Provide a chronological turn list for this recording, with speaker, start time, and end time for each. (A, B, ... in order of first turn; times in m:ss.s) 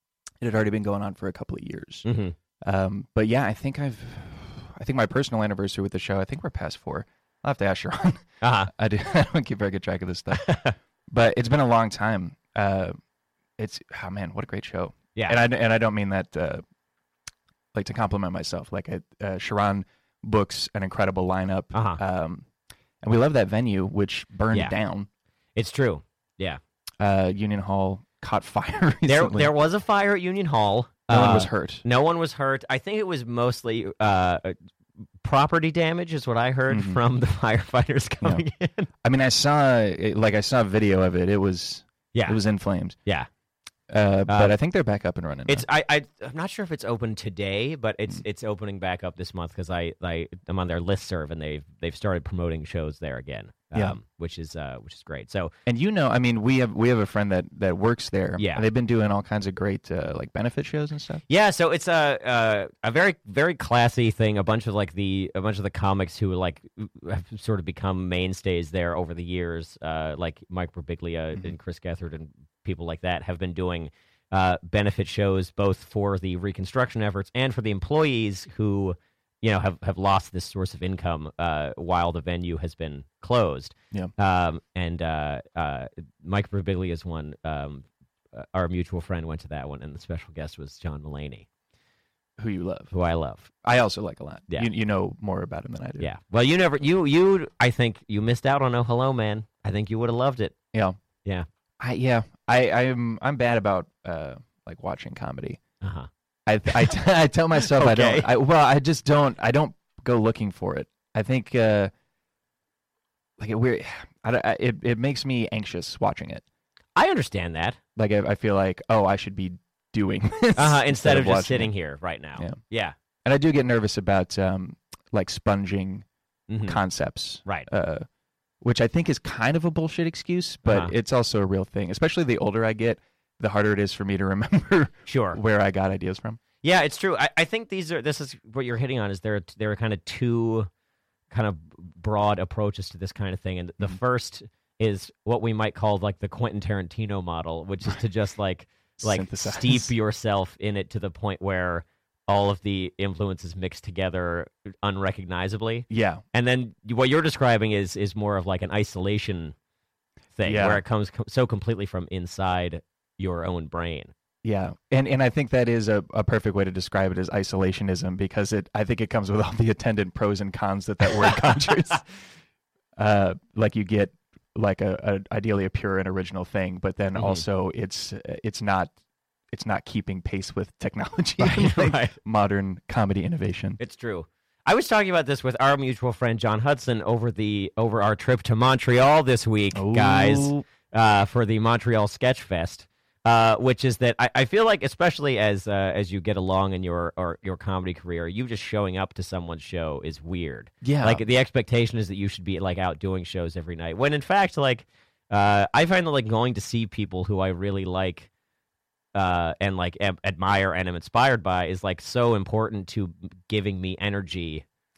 0:00.4-0:02.1 A
0:02.0-0:02.4 B
0:02.6-0:10.6 A
0:08.4-0:08.7 B
0:10.4-0:10.8 B
0:11.1-0:13.0 A
0:13.6-0:16.6 A
0:17.7-0:22.5 A
0:21.7-0:22.0 B
0:23.0-0:25.1 A
0:25.6-0:26.6 B
0:27.0-0:29.5 A
0:29.1-0:34.6 B
0:31.1-0:31.8 A
0:35.2-0:38.9 B
0:36.7-0:37.0 A
0:39.0-0:43.0 A
0:42.1-0:42.4 B
0:43.9-0:45.6 A
0:44.3-0:44.6 B
0:45.5-0:55.5 B
0:53.7-0:54.0 A
0:55.7-1:01.2 A
0:58.4-0:58.6 B
1:01.3-1:31.5 B
1:32.4-1:32.9 A
1:32.9-1:33.5 B
1:33.6-1:36.1 A
1:36.0-1:40.6 B
1:41.8-1:45.6 A
1:45.8-1:46.1 B
1:46.5-1:51.9 A
1:46.7-1:47.0 B
1:47.6-1:48.3 B
1:53.4-1:56.4 A
1:57.0-1:57.8 B
1:58.0-2:01.7 A
2:00.6-2:03.0 B
2:03.2-2:06.1 A
2:06.5-2:06.8 B
2:06.6-2:08.1 A
2:08.6-2:16.4 A
2:10.6-2:10.9 B
2:15.1-2:15.4 B
2:16.6-2:20.7 B
2:21.3-2:39.6 B
2:29.0-2:29.9 A
2:35.9-2:36.2 A
2:40.4-2:44.1 B
2:40.4-2:40.8 A
2:44.4-2:52.1 A
2:51.0-2:52.0 B
2:53.0-2:58.9 A
2:57.2-2:57.4 B
2:59.5-3:03.8 A
3:01.4-3:02.2 B
3:03.8-3:28.3 B
3:09.7-3:10.6 A
3:20.8-3:21.2 A
3:29.1-3:34.6 B